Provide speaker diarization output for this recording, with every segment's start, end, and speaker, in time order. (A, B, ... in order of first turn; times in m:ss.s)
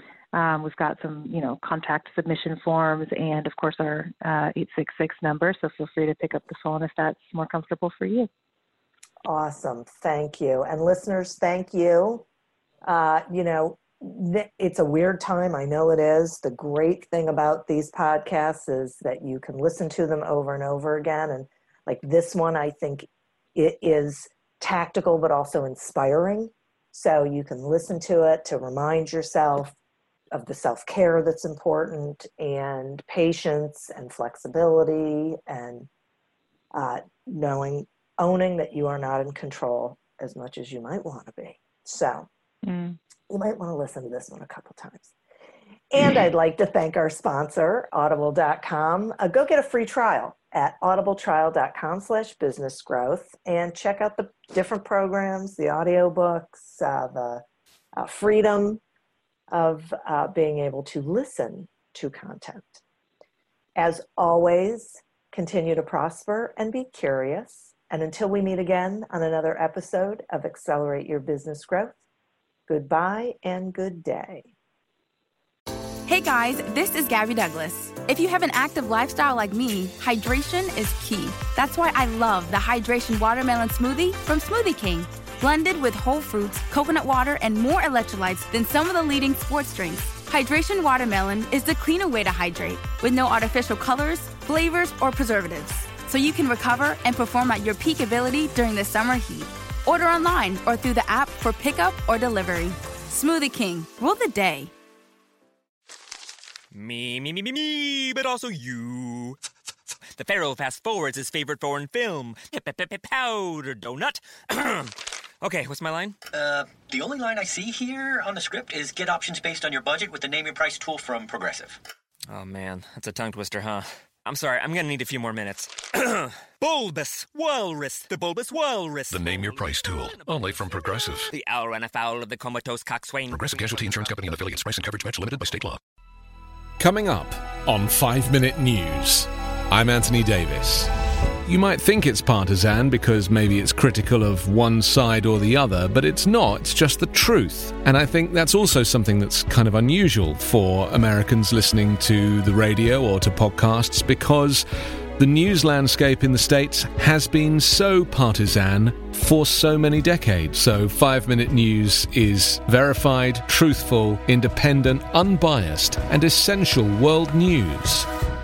0:00.3-0:08.3 A
0:09.2-0:12.2 B
0:12.8-0:29.8 B
0:30.3-0:35.9 B
0:36.7-0:42.3 B
0:42.6-0:43.0 A
0:43.3-0:45.1 B
0:45.9-0:57.4 B
0:57.9-0:58.8 B
0:59.5-1:02.8 B
1:03.8-1:12.0 B
1:12.7-1:14.5 B
1:16.0-1:44.7 C
1:46.7-1:49.4 D
1:50.1-1:56.2 D
1:56.3-2:01.8 E
2:02.3-2:14.1 D
2:09.1-2:11.3 F
2:13.3-2:15.8 F
2:16.8-2:20.9 G
2:21.4-2:34.6 G
2:35.2-2:48.1 G